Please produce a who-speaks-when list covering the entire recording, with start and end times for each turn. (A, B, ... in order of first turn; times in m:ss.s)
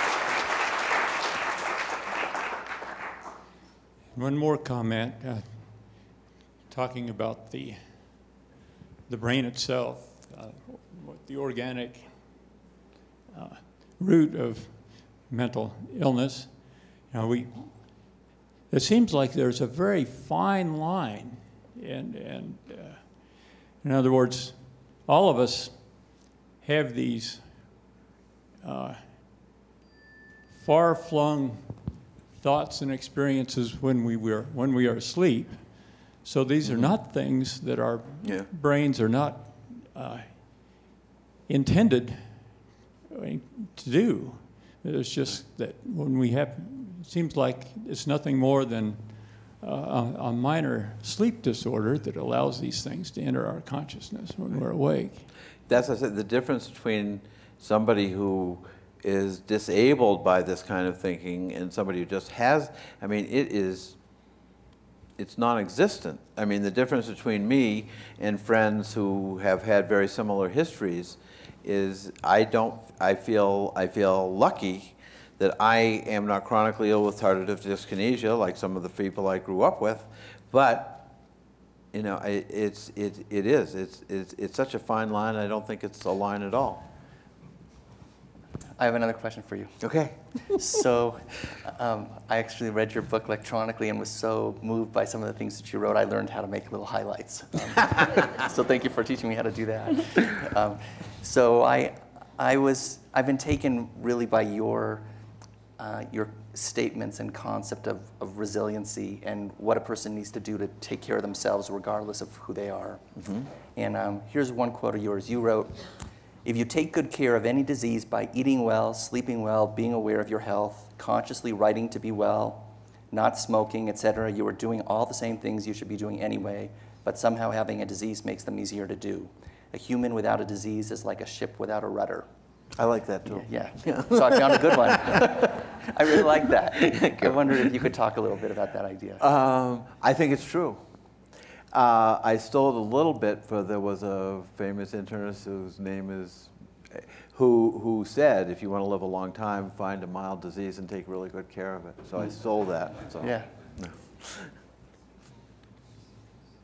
0:04.1-0:08.4 A
0:09.1-0:12.5 A
0:13.3-0:27.9 A
0:28.6-0:29.3 A
0:30.5-0:40.8 A
0:36.6-0:36.9 B
0:38.2-0:38.5 B
0:41.5-0:55.3 A
0:55.7-1:04.0 B
1:05.2-1:21.1 B
1:21.9-1:26.8 B
1:28.8-1:29.9 C
1:29.8-1:30.6 B
1:30.5-1:45.1 C
1:45.8-1:53.1 C
1:53.2-1:53.4 B
1:53.7-2:12.3 C
2:12.8-2:15.2 B
2:13.3-2:19.2 C
2:16.8-2:17.4 B
2:19.2-2:20.8 B
2:21.7-2:34.5 B
2:33.2-2:33.5 C